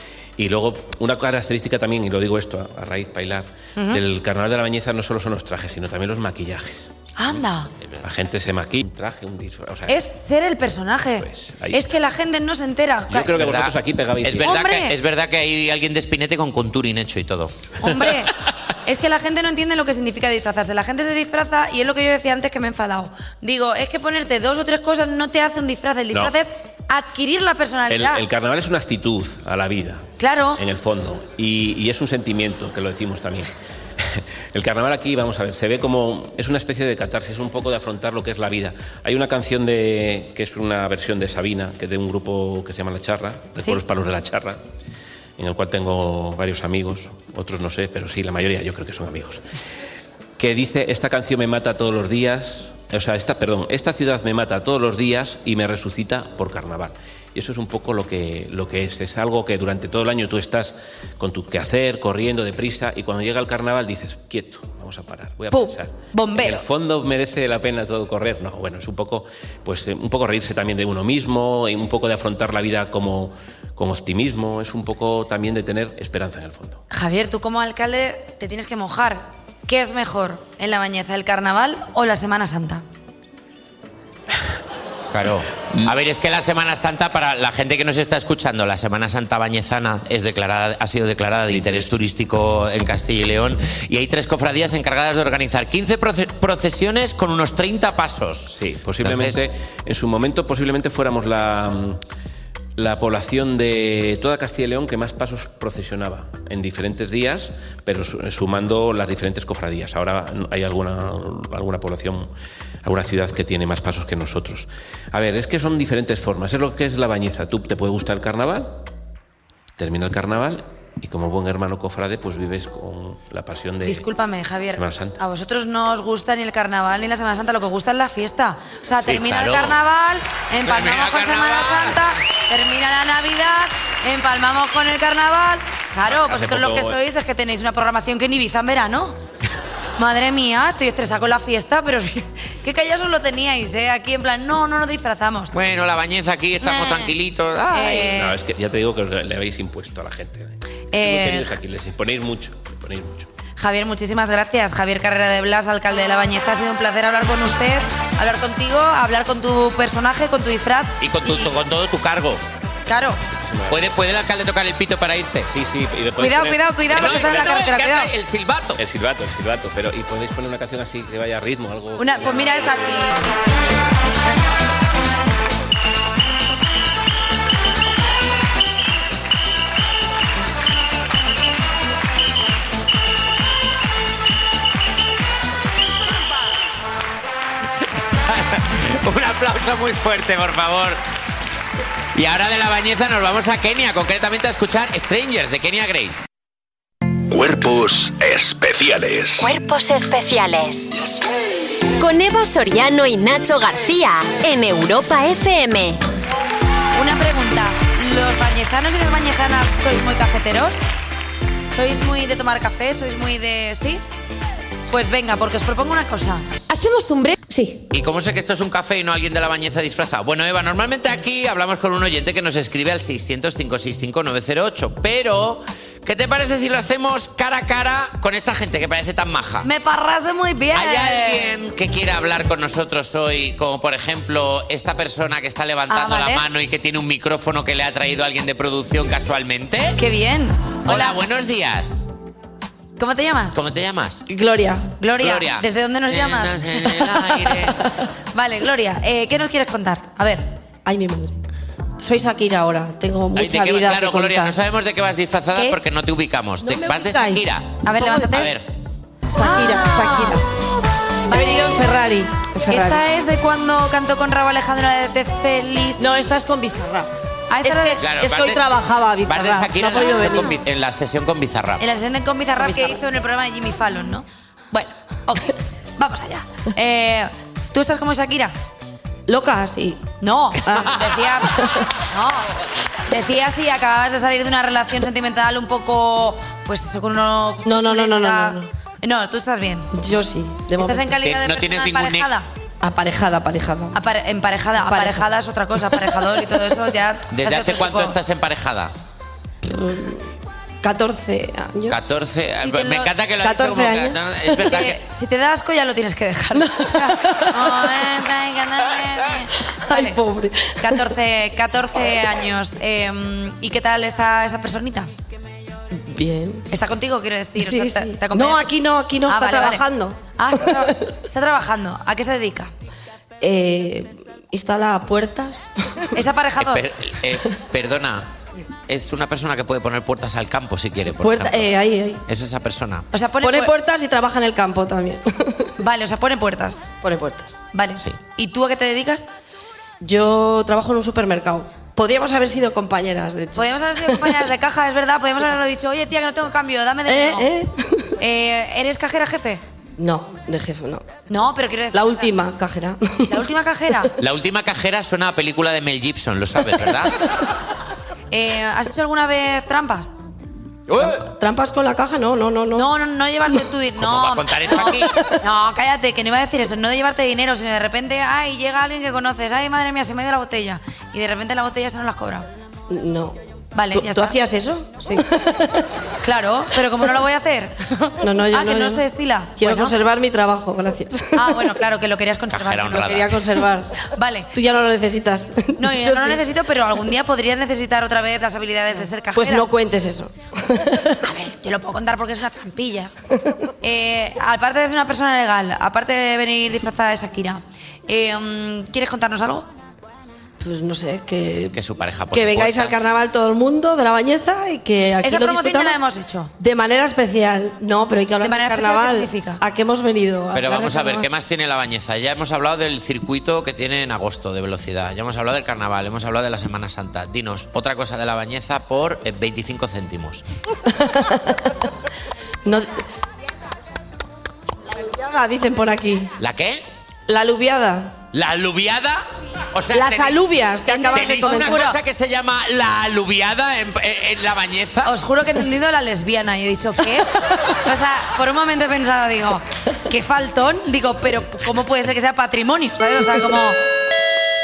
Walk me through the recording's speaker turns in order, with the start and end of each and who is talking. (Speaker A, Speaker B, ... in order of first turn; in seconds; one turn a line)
Speaker A: 0.4-6.9
Speaker B: 7.2-7.7
Speaker A: 8.0-10.0
Speaker B: 9.9-13.4
Speaker A: 11.2-11.8
Speaker A: 13.1-14.6
Speaker C: 13.3-17.5
Speaker B: 14.4-15.0
Speaker B: 17.8-18.3
Speaker B: 18.9-28.2
Speaker A: 27.9-44.6
Speaker B: 30.2-30.6
Speaker A: 45.4-49.4
Speaker A: 50.4-76.8
Speaker B: 65.5-66.6
Speaker B: 76.9-82.8
Speaker C: 85.1-98.5
Speaker A: 91.5-91.9
Speaker A: 98.5-102.0
Speaker C: 99.0-99.4
Speaker A: 102.8-112.3
Speaker A: 112.8-118.8
Speaker A: 119.8-124.1
Speaker B: 123.8-139.2
Speaker A: 124.8-125.2
Speaker A: 129.0-129.8
Speaker C: 130.7-132.0
Speaker A: 136.1-137.0
Speaker B: 140.0-145.5
Speaker C: 145.5-148.1
Speaker B: 146.6-147.1
Speaker B: 147.7-148.4
Speaker A: 148.1-153.3
Speaker B: 150.9-151.5
Speaker B: 153.6-161.5
Speaker C: 161.0-162.4
Speaker B: 162.9-163.2
Speaker A: 163.3-163.9
Speaker C: 163.7-165.5
Speaker A: 165.5-167.6
Speaker B: 166.2-168.1
Speaker C: 166.9-168.8
Speaker A: 168.8-173.3
Speaker B: 172.0-173.4
Speaker C: 188.3-191.0
Speaker C: 192.2-196.2
Speaker D: 197.3-199.5
Speaker E: 199.4-200.9
Speaker E: 202.0-206.0
Speaker B: 206.9-210.8
Speaker B: 211.7-214.0
Speaker B: 214.9-217.6
Speaker C: 217.9-229.7
Speaker B: 229.6-231.5
Speaker C: 230.7-240.0
Speaker B: 235.9-236.4
Speaker B: 240.0-241.2
Speaker C: 240.9-242.0
Speaker B: 243.0-243.6
Speaker C: 243.5-244.2
Speaker F: 244.3-244.9
Speaker B: 245.0-247.1
Speaker C: 245.2-247.8
Speaker B: 248.3-250.5
Speaker F: 250.9-251.4
Speaker F: 252.0-254.6
Speaker C: 253.3-258.6
Speaker F: 256.6-257.4
Speaker B: 257.8-258.5
Speaker F: 258.0-258.3
Speaker B: 259.3-260.4
Speaker F: 259.4-260.4
Speaker B: 261.3-261.8
Speaker F: 261.3-263.0
Speaker B: 262.7-266.1
Speaker F: 266.0-267.1
Speaker B: 267.5-268.0
Speaker F: 267.6-270.5
Speaker C: 268.0-268.6
Speaker C: 269.2-271.8
Speaker B: 271.8-278.5
Speaker F: 272.6-273.0
Speaker F: 279.3-280.0
Speaker B: 280.2-281.6
Speaker F: 280.6-281.9
Speaker B: 282.1-282.5
Speaker B: 283.1-289.9
Speaker F: 287.6-288.7
Speaker F: 289.9-291.1
Speaker B: 290.8-292.5
Speaker C: 291.2-292.3
Speaker F: 292.8-294.0
Speaker B: 293.9-298.1
Speaker F: 294.8-295.3
Speaker C: 297.3-298.9
Speaker F: 299.6-302.0
Speaker C: 301.9-305.0
Speaker B: 302.6-303.1
Speaker F: 303.4-304.2
Speaker B: 304.7-310.2
Speaker F: 306.6-308.0
Speaker F: 309.9-311.0
Speaker B: 310.8-315.1
Speaker F: 315.9-316.7
Speaker B: 316.7-318.7
Speaker F: 317.6-320.9
Speaker B: 319.3-322.7
Speaker F: 323.4-325.7
Speaker B: 326.1-326.8
Speaker C: 326.6-328.3
Speaker C: 328.9-331.8
Speaker F: 331.2-332.2
Speaker C: 332.3-333.1
Speaker B: 333.1-333.7
Speaker F: 333.4-335.7
Speaker B: 335.8-336.9
Speaker F: 337.0-337.6
Speaker B: 337.7-339.3
Speaker F: 340.0-344.4
Speaker B: 343.6-347.5
Speaker F: 347.1-348.1
Speaker B: 348.2-349.6
Speaker F: 350.0-351.1
Speaker B: 351.3-352.3
Speaker F: 351.9-353.4
Speaker B: 353.3-354.1
Speaker C: 354.2-357.1
Speaker B: 358.3-360.1
Speaker F: 361.0-362.9
Speaker B: 362.8-372.5
Speaker C: 364.0-365.1
Speaker F: 372.9-373.4
Speaker B: 373.8-374.4
Speaker F: 373.9-375.9
Speaker B: 376.2-380.0
Speaker F: 378.2-379.1
Speaker F: 379.6-381.6
Speaker B: 381.4-383.3
Speaker C: 382.5-383.3
Speaker F: 383.1-383.9
Speaker B: 384.1-384.5
Speaker F: 384.5-386.4
Speaker B: 385.8-389.7
Speaker F: 389.3-391.2
Speaker B: 391.2-393.1
Speaker B: 393.8-399.7
Speaker F: 400.6-401.8
Speaker C: 401.7-403.0
Speaker F: 402.3-406.0
Speaker B: 405.2-406.5
Speaker F: 406.6-411.3
Speaker B: 408.4-409.6
Speaker C: 410.5-420.4
Speaker F: 420.9-421.7
Speaker F: 424.9-426.3
Speaker C: 426.4-426.8
Speaker F: 427.3-428.2
Speaker C: 428.3-429.2
Speaker C: 429.7-435.1
Speaker F: 429.9-431.8
Speaker B: 430.9-432.0
Speaker B: 435.0-443.8